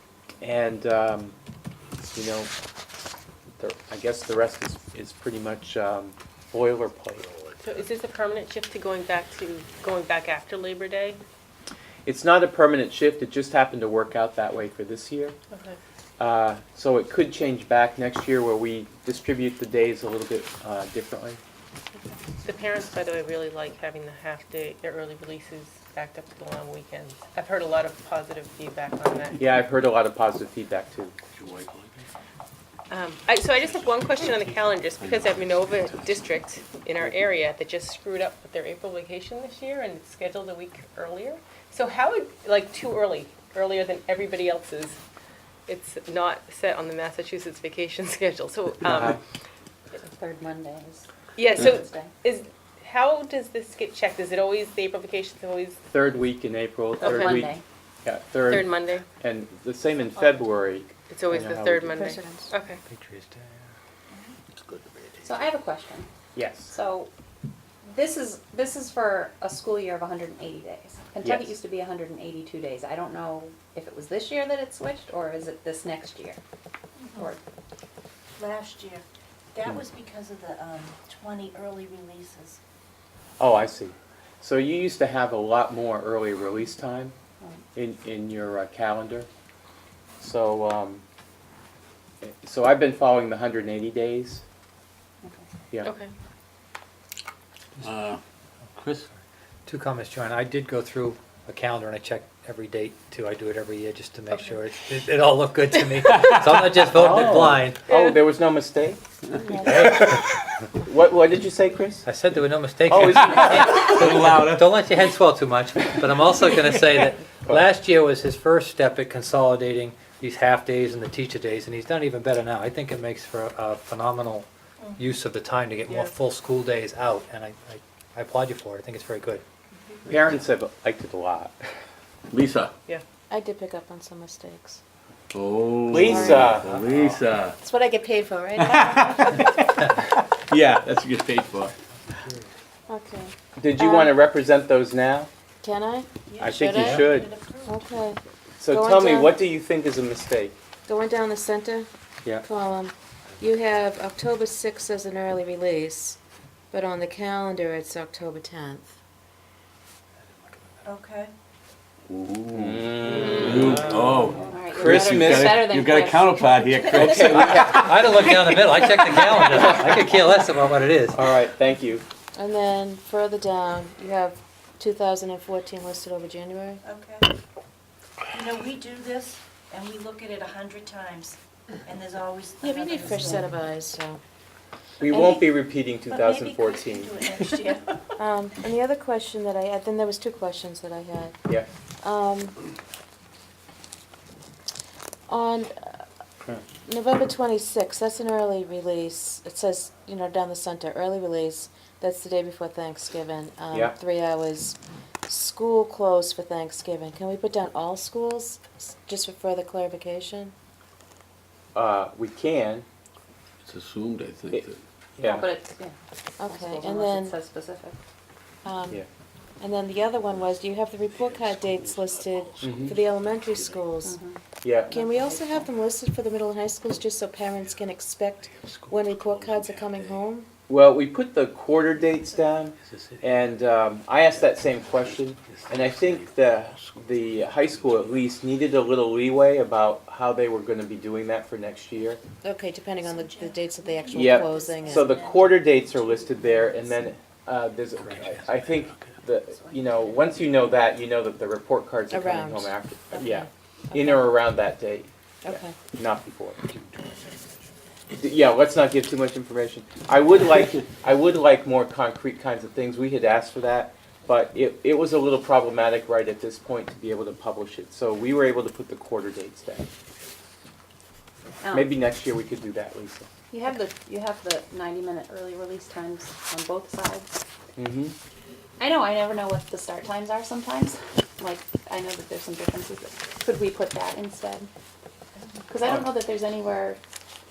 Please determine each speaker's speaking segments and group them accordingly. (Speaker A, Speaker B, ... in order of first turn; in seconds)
Speaker A: 0.4-1.3, 2.1-2.5, 3.6-7.2, 12.1-15.3, 16.2-21.4, 29.3-31.1, 48.8-49.2, 55.9-62.1, 66.3-66.7, 71.2-71.5, 83.4-87.1, 87.7-89.3, 90.2-91.0, 92.2-94.4, 106.9-109.0, 109.6-109.9, 110.8-112.0, 112.9-114.3, 130.1-131.6, 135.9-136.8, 143.6-145.3, 146.4-147.3, 148.6-150.5, 162.5-164.0, 164.7-165.7, 166.9-168.0, 169.6-170.0, 171.1-172.0, 185.0-187.2, 211.7-212.8, 215.2-215.5, 222.6-222.9, 224.6-224.9, 230.7-242.2, 244.1-256.6, 258.2-269.9, 271.7-273.3, 277.8-278.1
Speaker B: 7.6-11.2, 15.5-15.8, 22.4-29.4, 32.9-45.0, 45.7-49.2, 51.4-55.8, 57.0-57.5, 58.4-59.1, 61.1-62.8, 95.8-96.1, 104.3-104.6, 107.9-108.2
Speaker C: 31.4-32.0, 35.0-35.8, 97.8-98.2, 98.8-99.0, 109.6-110.0, 113.3-114.8, 132.3-132.7, 135.3-137.6, 138.6-139.3, 140.2-141.7, 162.1-169.2, 213.6-214.8, 229.3-229.7
Speaker D: 49.9-52.1, 57.0-57.6, 65.2-66.1, 66.7-67.1, 67.8-76.4, 77.1-77.4, 95.2-95.5, 163.9-167.4, 215.2-218.0, 224.0-225.7, 271.6-271.9, 273.5-277.3, 278.8-284.7, 285.7-287.0
Speaker E: 61.9-62.5, 109.4-109.9, 133.3-134.8, 136.0-136.5, 137.6-139.5, 142.9-144.1, 145.6-149.4, 150.9-151.9, 152.4-156.2, 156.7-158.9, 172.3-176.8, 182.6-184.2, 185.1-185.4, 188.2-191.4, 192.0-192.6, 195.3-196.0, 196.8-210.5, 216.4-217.4, 218.6-219.0, 219.6-224.1, 224.9-230.5, 242.4-245.4, 252.1-254.4, 255.4-255.7
Speaker F: 62.8-63.7, 99.7-107.8, 112.0-129.4, 136.5-137.0, 142.2-142.4, 167.6-171.2, 248.0-249.0
Speaker G: 78.4-82.6, 147.1-147.6, 160.8-161.3, 176.9-177.2, 178.3-181.3, 181.8-183.4, 186.1-187.8, 243.0-245.8